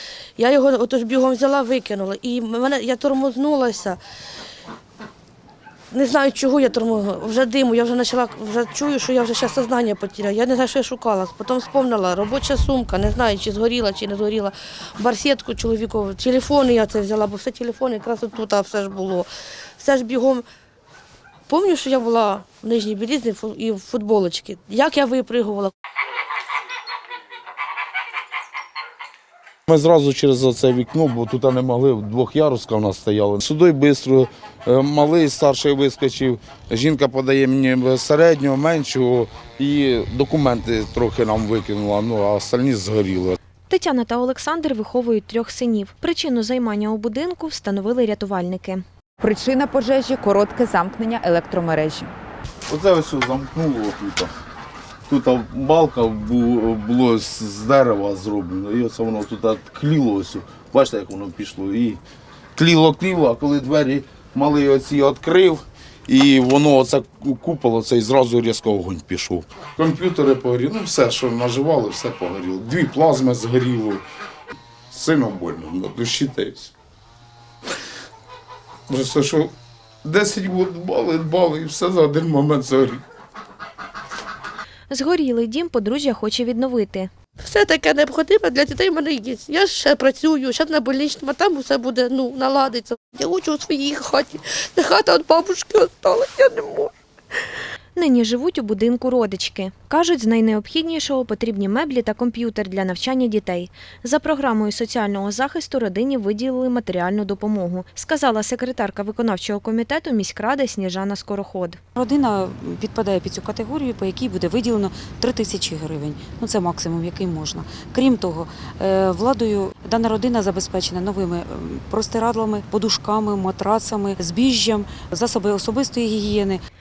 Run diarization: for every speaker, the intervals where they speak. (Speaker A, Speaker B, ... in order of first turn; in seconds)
Speaker A: 0.4-4.0, 5.9-19.3, 19.8-20.4, 21.5-25.7, 87.4-96.9
Speaker B: 29.7-43.4, 52.7-54.3, 55.1-62.0, 62.5-74.0, 74.9-76.7, 78.9-79.5, 80.0-83.0
Speaker C: 43.7-48.8, 84.9-87.1, 98.0-111.8
Speaker D: 49.2-52.1
Speaker E: 112.0-126.6